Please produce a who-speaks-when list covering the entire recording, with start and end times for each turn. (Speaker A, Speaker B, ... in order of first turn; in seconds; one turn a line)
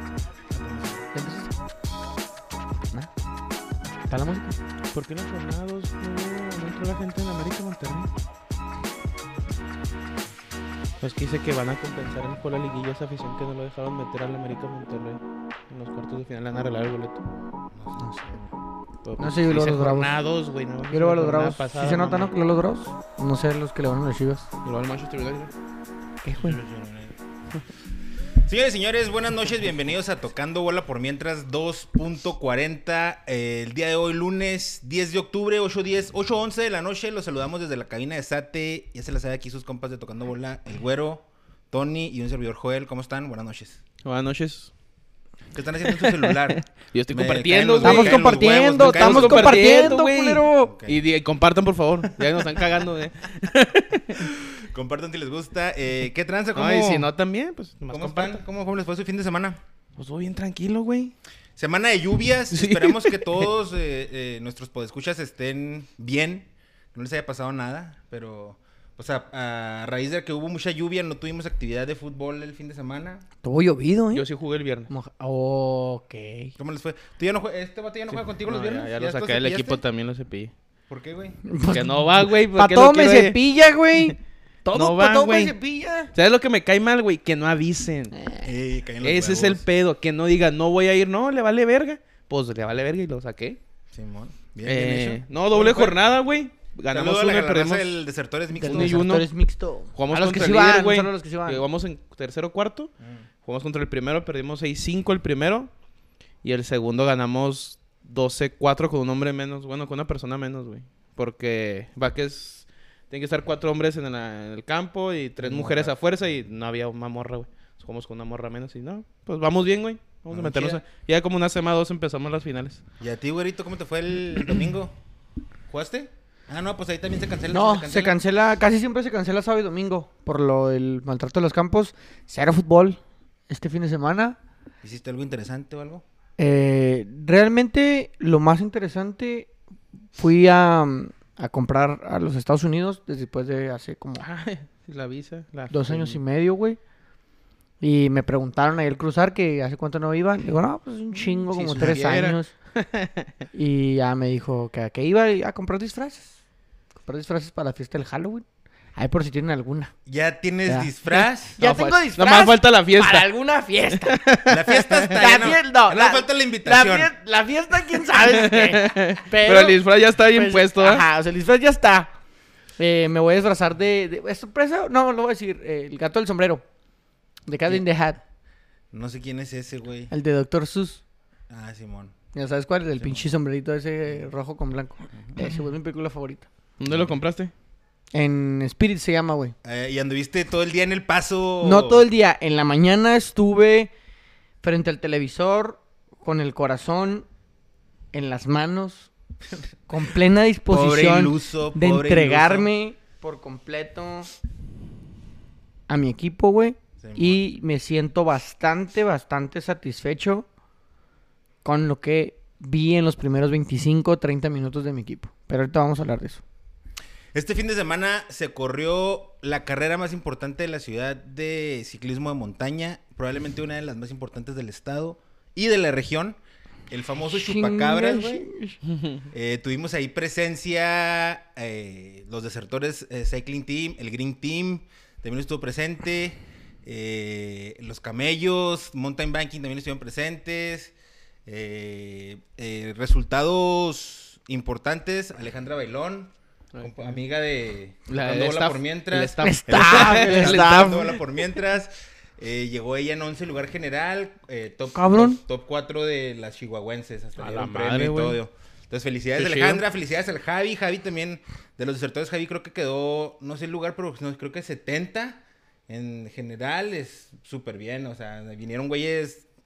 Speaker A: 0.5-1.1
Speaker B: 1.1-1.5
Speaker B: 4.1-4.6
Speaker C: 4.9-8.1
Speaker C: 11.0-17.3
Speaker A: 17.7-18.4
Speaker B: 18.0-18.4
Speaker C: 19.0-22.3
Speaker B: 19.2-20.1
Speaker B: 20.9-24.4
Speaker C: 24.6-25.5
Speaker B: 26.2-26.6
Speaker A: 26.3-27.2
Speaker A: 28.4-43.8
Speaker C: 44.0-44.7
Speaker A: 45.5-50.0
Speaker C: 45.9-54.3
Speaker B: 47.8-50.7
Speaker A: 50.6-51.0
Speaker A: 52.2-52.6
Speaker A: 54.1-57.1
Speaker C: 56.5-58.4
Speaker A: 57.9-59.6
Speaker C: 60.0-61.1
Speaker A: 61.6-73.3
Speaker C: 62.5-63.5
Speaker B: 73.4-74.3
Speaker C: 74.1-74.9
Speaker B: 74.9-76.5
Speaker A: 76.6-79.8
Speaker C: 78.1-80.5
Speaker A: 80.9-81.4
Speaker B: 81.5-86.1
Speaker C: 81.7-83.4
Speaker C: 84.7-85.5
Speaker C: 86.2-88.1
Speaker B: 88.1-88.5
Speaker A: 88.4-89.6
Speaker C: 89.0-93.6
Speaker A: 93.9-96.0
Speaker C: 94.7-98.0
Speaker A: 96.9-99.0
Speaker B: 98.6-101.6
Speaker C: 98.6-99.3
Speaker C: 100.0-102.9
Speaker C: 103.5-105.7
Speaker C: 106.4-122.8
Speaker A: 115.4-116.0
Speaker A: 120.3-120.8
Speaker A: 123.0-124.9
Speaker A: 125.7-128.2
Speaker B: 127.5-134.4
Speaker A: 134.8-136.0
Speaker B: 136.4-139.5
Speaker B: 140.2-144.2
Speaker C: 144.2-146.2
Speaker B: 145.7-146.8
Speaker B: 147.8-152.5
Speaker C: 151.1-153.3
Speaker B: 153.5-156.4
Speaker B: 157.1-158.4
Speaker B: 159.0-159.9
Speaker A: 160.1-161.6
Speaker B: 160.7-160.9
Speaker B: 161.5-164.2
Speaker C: 161.6-163.3
Speaker C: 164.0-165.2
Speaker A: 164.5-167.1
Speaker B: 165.2-172.1
Speaker C: 167.9-171.0
Speaker B: 172.8-176.6
Speaker B: 177.5-178.2
Speaker A: 178.9-180.1
Speaker B: 180.1-181.0
Speaker A: 181.5-182.2
Speaker B: 182.3-186.5
Speaker A: 183.0-183.3
Speaker A: 185.1-185.5
Speaker C: 186.8-187.5
Speaker A: 186.8-187.2
Speaker B: 188.1-189.6
Speaker A: 189.6-192.1
Speaker B: 191.6-193.9
Speaker B: 194.6-197.3
Speaker B: 198.1-199.1
Speaker B: 199.9-204.3
Speaker A: 200.7-202.7
Speaker B: 205.9-210.5
Speaker A: 207.0-207.4
Speaker B: 211.6-216.4
Speaker A: 217.3-226.4
Speaker A: 226.9-228.5
Speaker B: 227.3-228.8
Speaker C: 228.9-229.2
Speaker A: 229.3-240.9
Speaker A: 241.5-269.5
Speaker C: 246.7-247.1
Speaker C: 248.1-251.2
Speaker B: 249.4-251.1
Speaker B: 254.9-255.4
Speaker C: 257.4-258.4
Speaker C: 259.4-259.8